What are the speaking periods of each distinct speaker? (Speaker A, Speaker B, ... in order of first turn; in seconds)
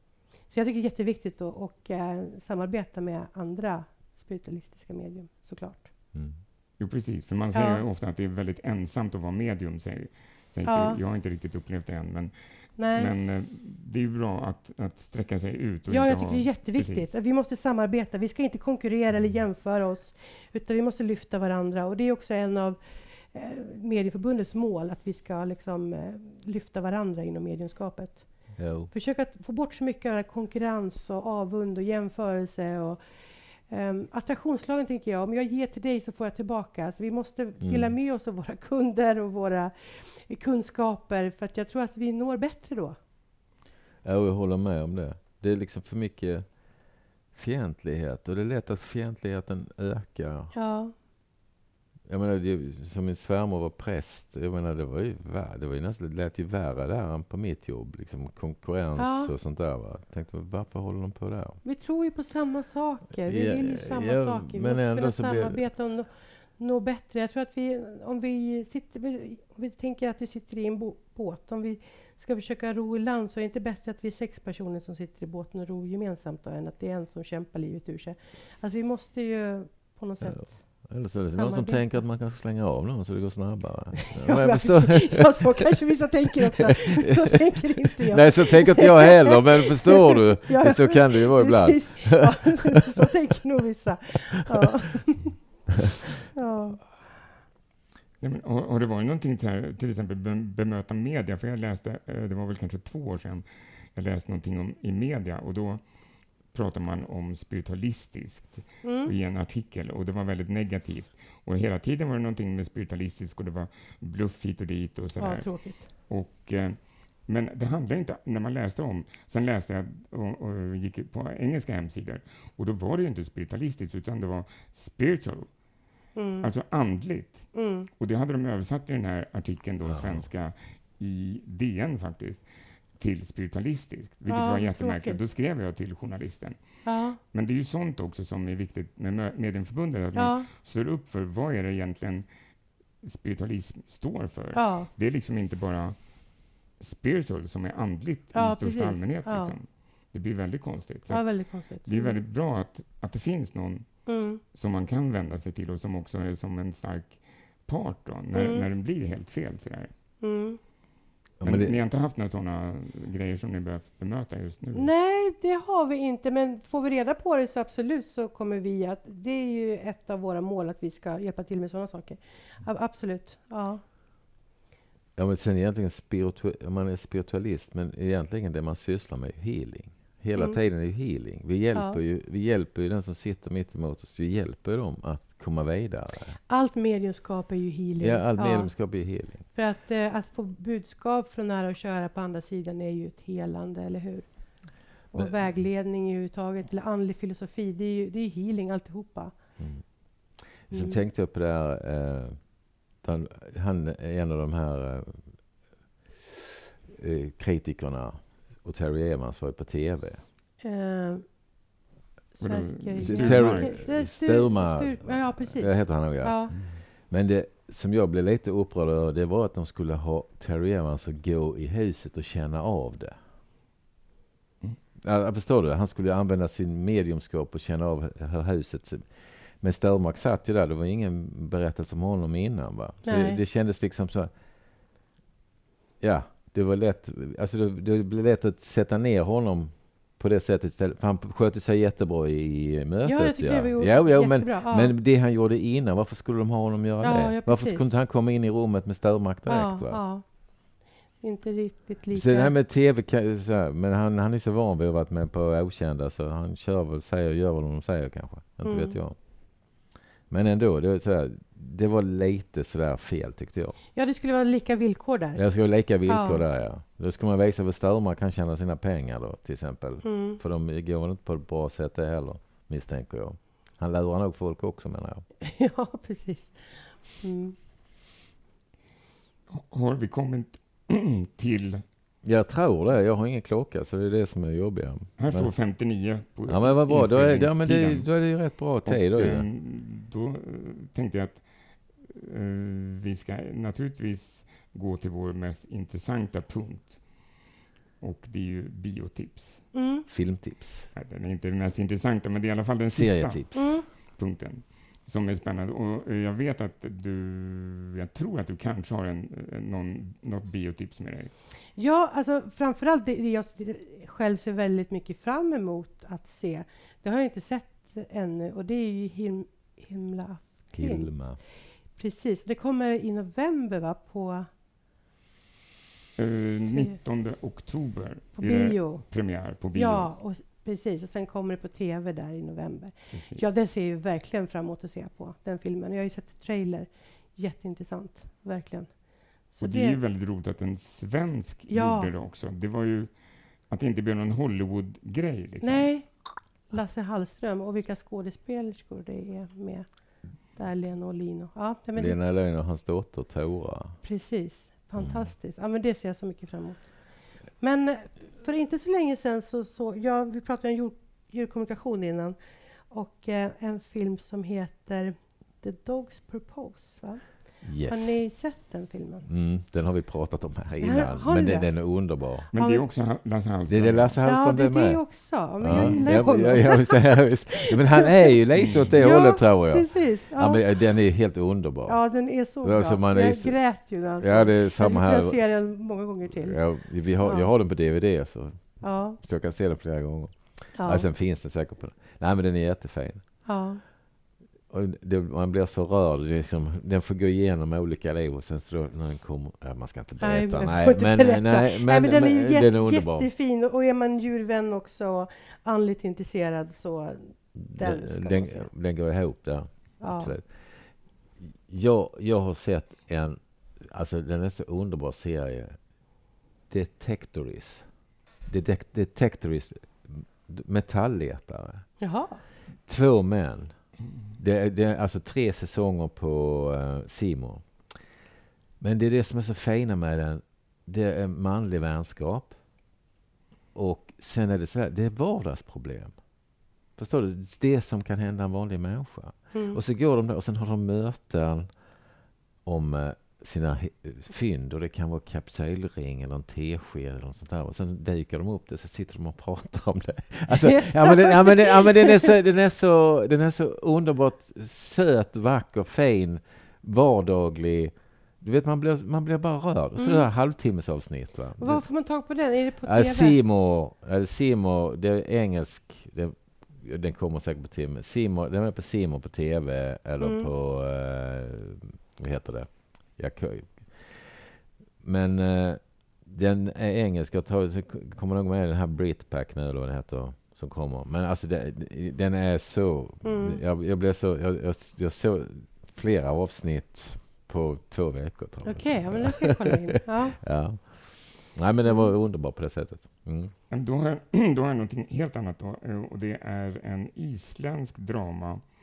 Speaker A: 0.5-5.9, 7.5-7.8, 10.7-11.0, 12.8-13.1, 15.9-33.0, 33.7-43.0, 50.5-50.9, 59.0-59.3, 61.6-81.8, 84.1-95.6, 96.3-96.9, 108.8-109.1, 115.2-115.8, 126.2-126.5, 127.5-127.9, 134.3-135.2, 136.8-137.2, 140.2-140.5, 144.5-144.9, 148.3-149.6, 151.1-152.2, 154.1-154.4, 158.3-158.7, 160.2-160.6, 164.7-173.8, 181.7-182.0, 186.5-199.4, 200.7-201.0, 210.6-211.3, 212.4-216.6, 233.0-233.4, 243.0-244.9, 247.0-247.9, 249.5-250.5, 251.2-252.5, 258.6-258.9, 263.9-265.4, 266.0-266.4, 270.0-270.4, 275.4-277.5, 299.7-300.1, 303.5-303.8, 311.8-321.3, 321.9-324.5, 326.7-327.0, 328.4-329.0, 329.7-340.0, 341.7-342.1, 345.6-349.9, 350.4-352.2, 354.0-362.4, 362.9-369.3, 370.8-371.7, 372.5-372.8, 374.2-380.7, 381.9-387.5, 388.8-389.2, 390.7-391.1, 393.4-393.8, 400.2-408.7, 410.0-410.3, 422.0-422.4, 439.5-439.8, 450.6-452.3, 460.0-460.2, 461.6-463.4, 470.2-470.5, 483.2-483.6, 488.6-490.4, 491.8-492.1
Speaker B: 6.8-17.1, 98.2-105.9, 106.4-125.5, 126.4-142.3, 143.0-146.0, 146.8-159.9, 161.4-164.9, 212.4-213.8, 279.5-281.8, 285.2-288.3, 288.8-291.4, 292.0-297.0, 298.0-299.7, 300.9-311.3, 326.1-330.1, 333.1-333.4, 339.6-343.1, 343.7-345.9, 372.5-374.2, 375.7-376.0, 378.6-379.0, 493.7-498.7
Speaker C: 28.6-28.9, 37.6-37.9, 44.0-46.5, 47.3-50.5, 52.0-61.6, 63.2-65.6, 80.2-85.8, 88.0-92.6, 129.8-130.3, 161.4-161.7, 175.2-186.4, 188.0-189.5, 199.6-206.2, 206.8-210.2, 213.0-223.2, 225.0-234.3, 236.0-250.0, 252.1-263.8, 265.3-275.2, 282.2-285.5, 286.5-289.4, 300.1-300.9, 302.9-303.7, 320.7-321.4, 351.9-354.0, 355.0-355.3, 367.6-368.2, 369.2-372.5, 373.7-385.7, 386.2-393.4, 394.7-403.3, 407.5-415.9, 416.7-422.0, 422.8-423.8, 424.3-428.1, 428.8-432.6, 433.7-436.2, 436.9-441.9, 442.6-461.9, 462.8-489.6, 490.4-493.5